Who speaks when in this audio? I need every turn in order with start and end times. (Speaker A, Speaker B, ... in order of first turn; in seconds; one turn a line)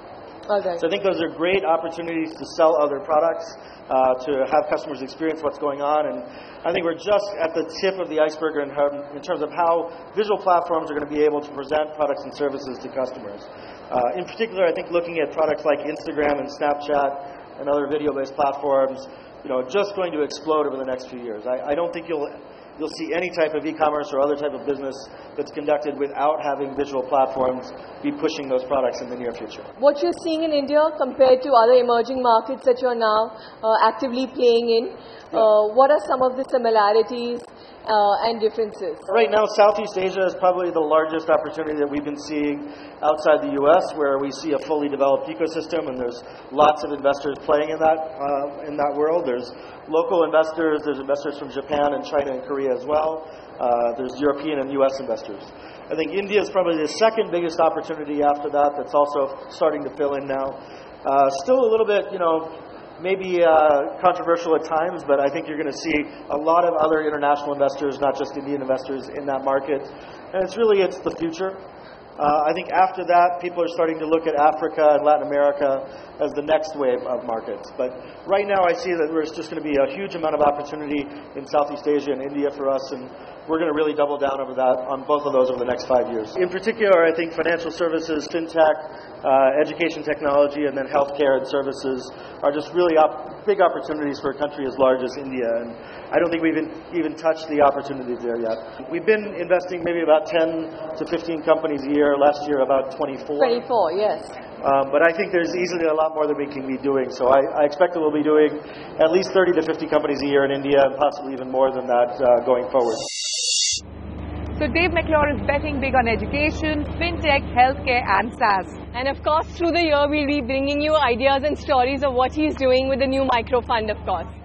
Speaker A: 0.5-0.8
Speaker B: 0.8-29.7
Speaker A: 29.8-39.1
Speaker B: 39.1-71.6
Speaker B: 72.2-103.6
Speaker A: 103.4-104.4
Speaker B: 104.6-113.0
Speaker C: 114.5-118.8
Speaker A: 118.9-124.3